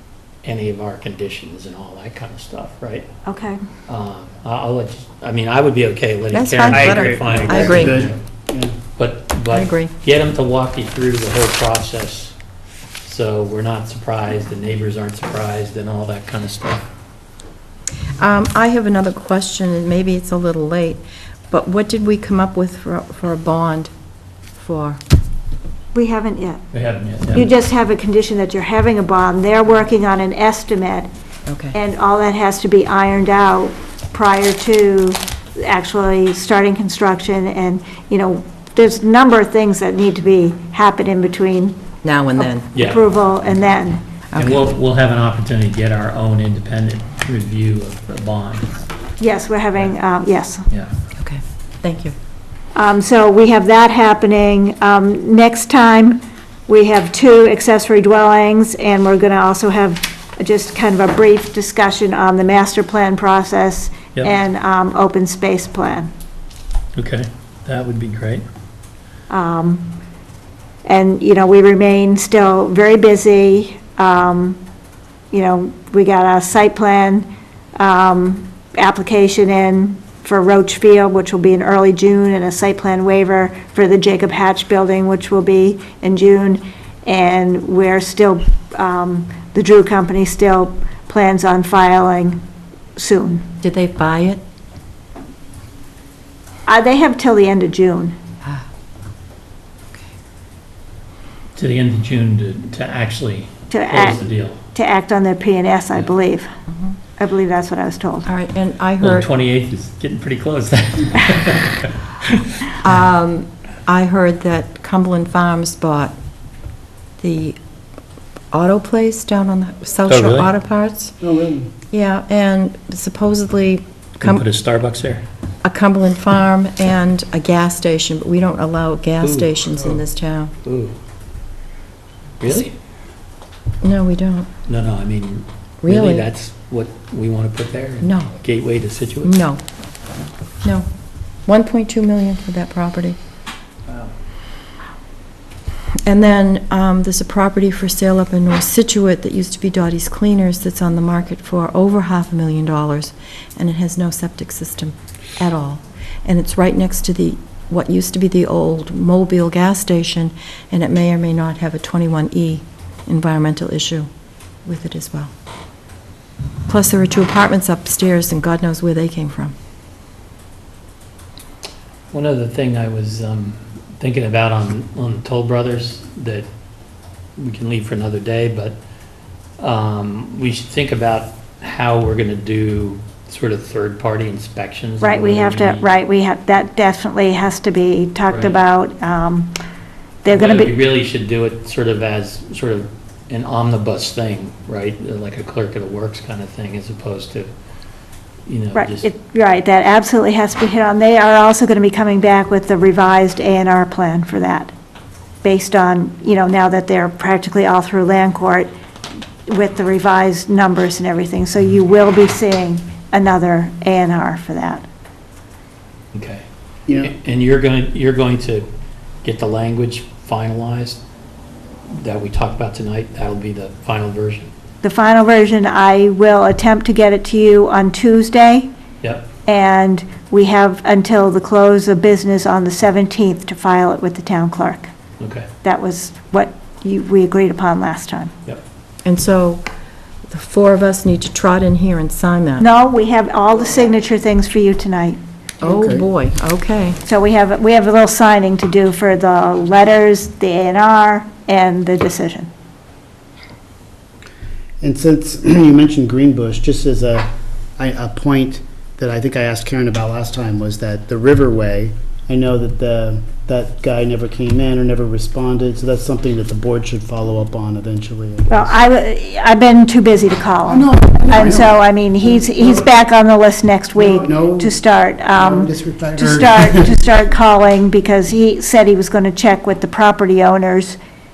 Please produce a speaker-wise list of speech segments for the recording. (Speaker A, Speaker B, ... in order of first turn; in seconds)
Speaker A: 0.4-3.1, 3.9-8.2, 9.0-12.3, 13.0-16.9, 26.7-27.5, 42.7-43.0, 44.3-48.9, 67.0-68.4, 101.5-104.6, 109.0-112.7, 120.1-120.5, 124.2-125.2, 129.2-129.6, 130.6-130.9, 132.4-132.7, 134.7-139.3, 172.1-176.5, 177.4-178.8, 179.6-185.9, 188.3-188.6, 190.3-197.5, 198.4-199.1, 216.1-216.4, 217.0-218.7, 219.2-221.0, 221.9-224.5, 229.0-229.3, 235.2-235.5
Speaker B: 3.2-3.6, 25.9-26.6, 27.3-31.1, 31.7-41.8, 42.4-44.0, 49.2-50.6, 52.7-66.1, 69.3-69.9, 70.8-74.6, 75.3-92.4, 93.0-93.5, 96.7-98.2, 103.7-106.5, 107.2-108.3, 185.0-189.5, 190.2-190.8, 198.7-204.7, 205.4-208.7, 209.5-214.8, 224.8-228.7, 229.4-234.9, 235.6-238.3, 242.6-245.2, 247.0-252.5, 268.5-281.0
Speaker C: 6.3-8.0, 9.5-9.9, 18.2-23.9, 24.6-25.0, 31.5-31.8, 42.0-42.7, 44.3-44.6, 51.2-52.1, 93.6-94.4, 108.2-109.3, 112.8-116.1, 117.2-117.6, 118.5-121.1, 121.9-124.4, 125.6-130.5, 133.8-134.5, 135.8-136.3, 138.0-138.3, 139.2-139.6, 140.6-140.9, 141.4-143.2, 146.0-164.1, 164.6-165.3, 166.7-169.5, 239.0-239.6, 240.3-242.6, 245.6-247.0
Speaker D: 6.7-8.8, 121.2-121.7, 245.6-246.0, 254.8-268.8, 270.6-271.8, 272.6-272.8, 273.9-274.8, 275.3-277.0